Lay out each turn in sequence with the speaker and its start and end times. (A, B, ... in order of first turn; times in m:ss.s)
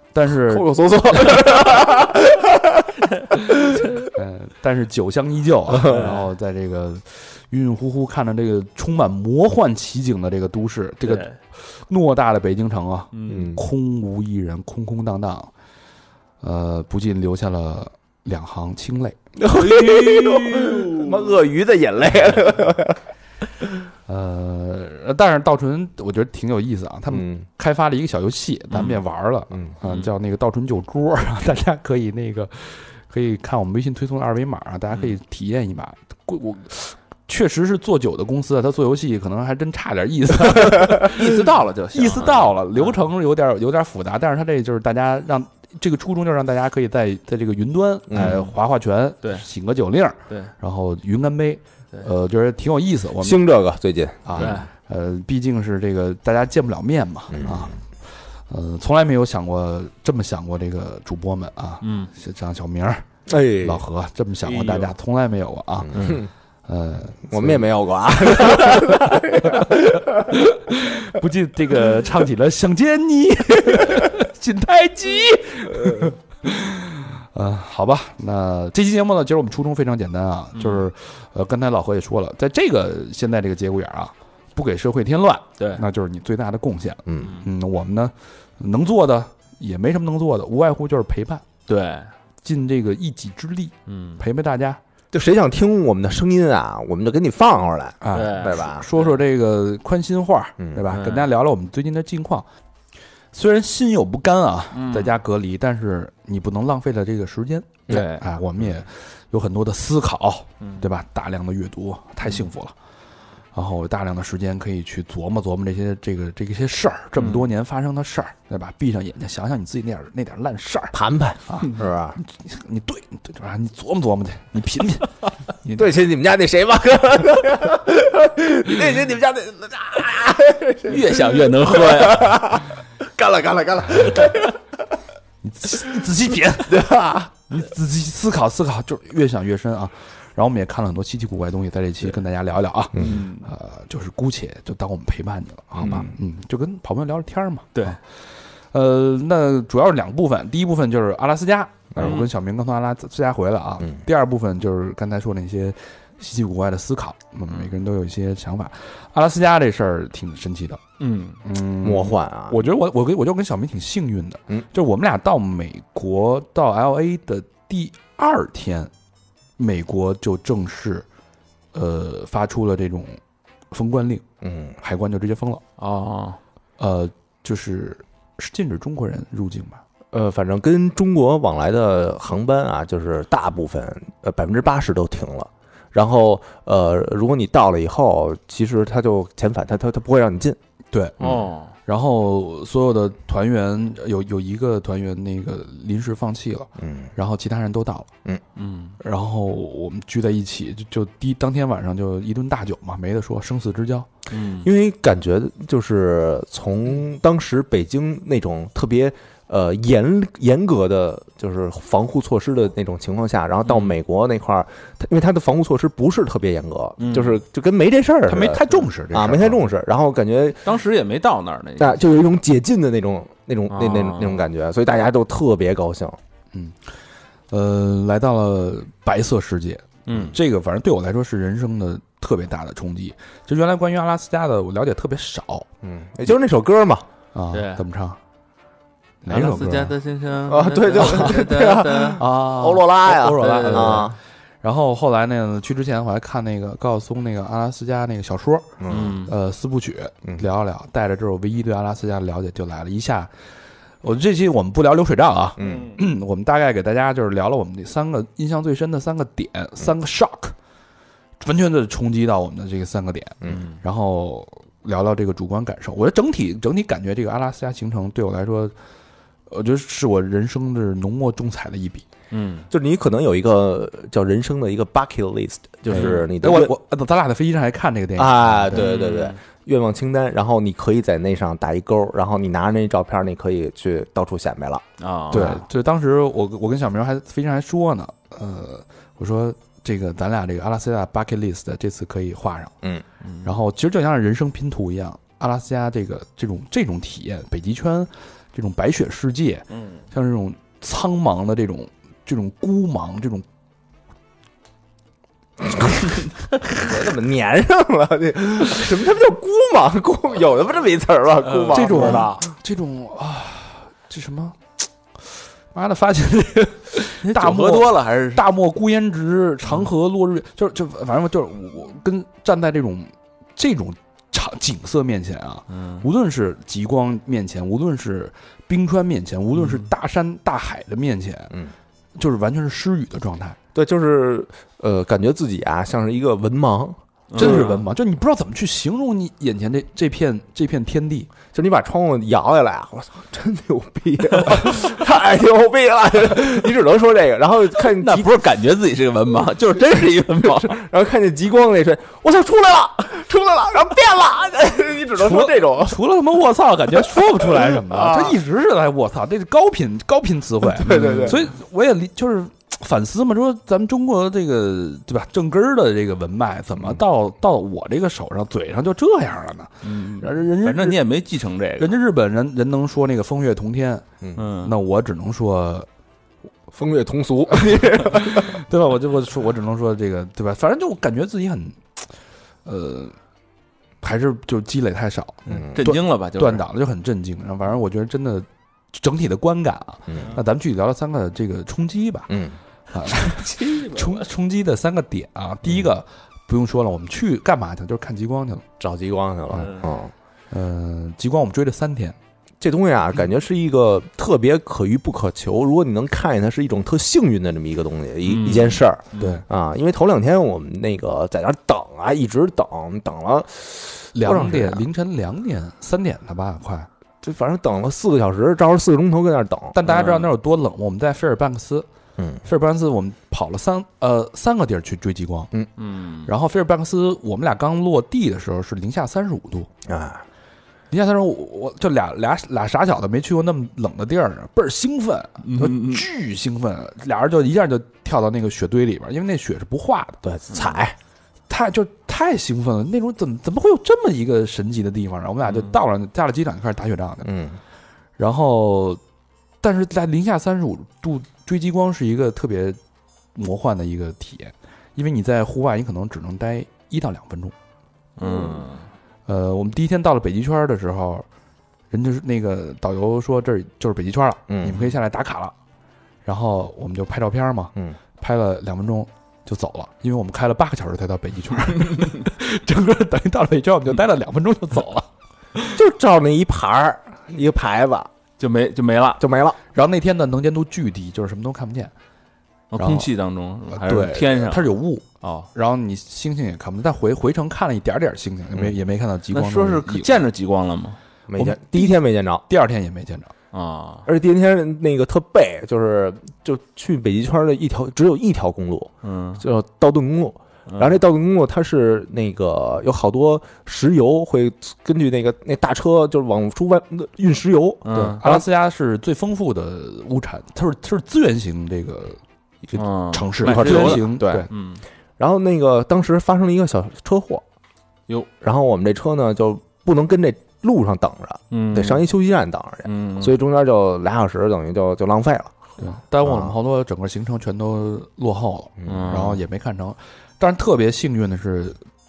0:00.1-0:00.7 A
0:00.3-0:04.0 B
0:04.1-0:15.5 A
0:05.7-0:06.1 B
0:05.9-0:06.2 C
0:11.0-0:11.3 C
0:13.1-0:13.5 C
0:13.3-0:13.6 B
0:16.4-0:19.2 A
0:19.4-0:23.0 B
0:19.5-0:21.2 C
0:24.1-0:53.4 A
0:27.1-0:27.4 B
0:28.7-0:29.0 C
0:41.0-0:43.0 C
0:48.1-0:48.4 B
0:53.2-0:54.6 B
0:54.2-0:57.8 A
0:54.4-0:54.7 C
0:57.3-0:57.7 B
0:58.4-1:03.0 A
1:01.8-1:02.1 C
1:03.3-1:03.8 B
1:03.6-1:07.7 A
1:04.4-1:04.9 C
1:05.8-1:06.3 B
1:07.3-1:10.2 B
1:08.4-1:08.8 A
1:09.4-1:31.4 A
1:20.6-1:20.8 C
1:25.6-1:25.8 C
1:27.1-1:27.3 B
1:31.7-1:32.1 C
1:32.4-1:34.8 A
1:33.9-1:34.2 C
1:35.1-1:38.9 B
1:38.0-1:42.5 A
1:38.1-1:39.1 C
1:40.9-1:41.3 C
1:43.3-1:52.7 A
1:44.7-1:45.2 C
1:47.9-1:48.2 C
1:53.5-2:05.9 A
2:00.9-2:02.2 B
2:05.8-2:14.6 B
2:10.9-2:12.5 C
2:13.9-2:14.3 A
2:15.4-2:16.9 A
2:16.7-2:17.3 B
2:17.5-2:28.0 A
2:23.0-2:23.5 C
2:25.8-2:26.1 B
2:28.7-2:40.8 A
2:32.0-2:32.3 C
2:41.0-2:41.4 C
2:41.4-2:48.9 A
2:41.8-2:42.6 B
2:49.6-2:51.1 A
2:51.7-2:53.2 A
2:53.7-2:54.2 A
2:54.4-2:54.8 B
2:54.8-2:55.6 A
2:55.8-2:56.4 C
2:56.8-2:59.8 A
3:00.1-3:10.6 B
3:10.9-3:18.1 A
3:11.2-3:11.7 C
3:16.8-3:17.1 B
3:18.6-3:19.0 C
3:19.0-3:24.1 A
3:24.3-3:24.7 C
3:24.6-3:40.7 B
3:33.7-3:34.0 C
3:37.0-3:37.4 C
3:38.3-3:39.6 A
3:40.6-3:42.0 C
3:41.8-3:46.2 B
3:43.7-3:44.5 C
3:47.5-3:55.7 A
3:50.1-3:50.4 C
3:50.1-3:50.4 B
3:55.8-3:57.1 B
3:57.3-3:58.2 A
3:57.5-3:57.8 C
3:59.2-4:00.0 A
3:59.3-4:02.2 C
4:00.5-4:04.2 B
4:02.2-4:13.3 A
4:03.4-4:04.0 C
4:08.8-4:09.2 B
4:08.9-4:09.3 C
4:14.0-4:20.6 A
4:15.6-4:15.9 B
4:15.6-4:15.9 C
4:21.4-4:28.7 A
4:23.5-4:23.8 C
4:29.5-4:32.0 A
4:32.3-4:32.7 C
4:32.7-4:36.8 B
4:35.9-4:36.2 C
4:35.9-4:38.8 A
4:38.2-4:45.6 B
4:38.8-4:39.4 C
4:45.0-4:45.6 C
4:45.3-4:52.7 A
4:53.4-5:03.4 A
5:06.6-5:12.3 B
5:11.4-5:12.4 C
5:11.7-5:14.6 A
5:15.7-5:31.5 A
5:17.2-5:18.4 C
5:25.7-5:26.0 C
5:29.6-5:29.9 C
5:32.2-5:33.6 A
5:33.8-5:37.8 B
5:37.3-5:37.8 C
5:37.4-5:41.3 A
5:41.5-5:48.4 B
5:47.9-5:50.8 C
5:50.4-5:56.0 B
5:55.2-6:11.0 A
5:57.0-5:58.4 B
6:00.7-6:01.4 B
6:00.9-6:01.3 C
6:09.8-6:11.9 C
6:11.8-6:14.0 A
6:14.4-6:14.7 C
6:14.6-6:15.9 A
6:16.7-6:18.6 B
6:18.1-6:22.0 A
6:22.7-6:23.2 A
6:24.0-6:32.3 A
6:25.5-6:25.8 B
6:25.7-6:26.6 C
6:32.3-6:32.6 B
6:32.9-6:38.6 A
6:33.1-6:34.3 C
6:38.8-6:40.1 B
6:40.5-6:42.2 A
6:42.6-6:54.9 B
6:48.3-6:49.3 C
6:49.2-6:49.4 A
6:54.1-6:56.9 A
6:57.2-6:59.8 B
6:59.7-7:01.9 A
6:59.9-7:00.3 C
7:02.2-7:02.4 B
7:02.4-7:05.5 A
7:05.8-7:06.3 C
7:06.2-7:09.7 A
7:09.9-7:10.2 B
7:10.9-7:20.2 A
7:15.4-7:16.0 C
7:20.2-7:21.0 B
7:21.5-7:27.3 A
7:25.5-7:25.7 C
7:27.2-7:27.6 B
7:28.2-7:29.0 A
7:29.6-7:32.8 A
7:33.4-7:37.5 A
7:38.2-7:38.8 C
7:38.2-7:38.6 B
7:39.3-7:41.3 A
7:41.9-7:45.5 A
7:44.5-7:44.8 B
7:46.2-7:55.8 A
7:55.8-7:58.1 B
7:58.4-7:59.2 C
7:59.2-7:59.6 B
7:59.7-8:01.9 A
8:02.7-8:05.5 C
8:02.8-8:03.1 A
8:03.7-8:10.2 A
8:09.3-8:11.0 C
8:11.3-8:12.4 B
8:11.4-8:13.3 A
8:13.5-8:14.1 C
8:14.1-8:28.4 B
8:19.0-8:19.4 C
8:20.7-8:21.0 C
8:27.9-8:28.2 C
8:27.9-8:34.5 A
8:32.8-8:34.8 C
8:33.4-8:34.5 B
8:35.2-8:37.4 B
8:38.4-8:45.6 B
8:41.5-8:42.1 C
8:42.8-8:43.3 C
8:45.8-8:51.8 A
8:46.2-8:46.5 B
8:48.8-8:49.2 B
8:48.9-8:49.4 C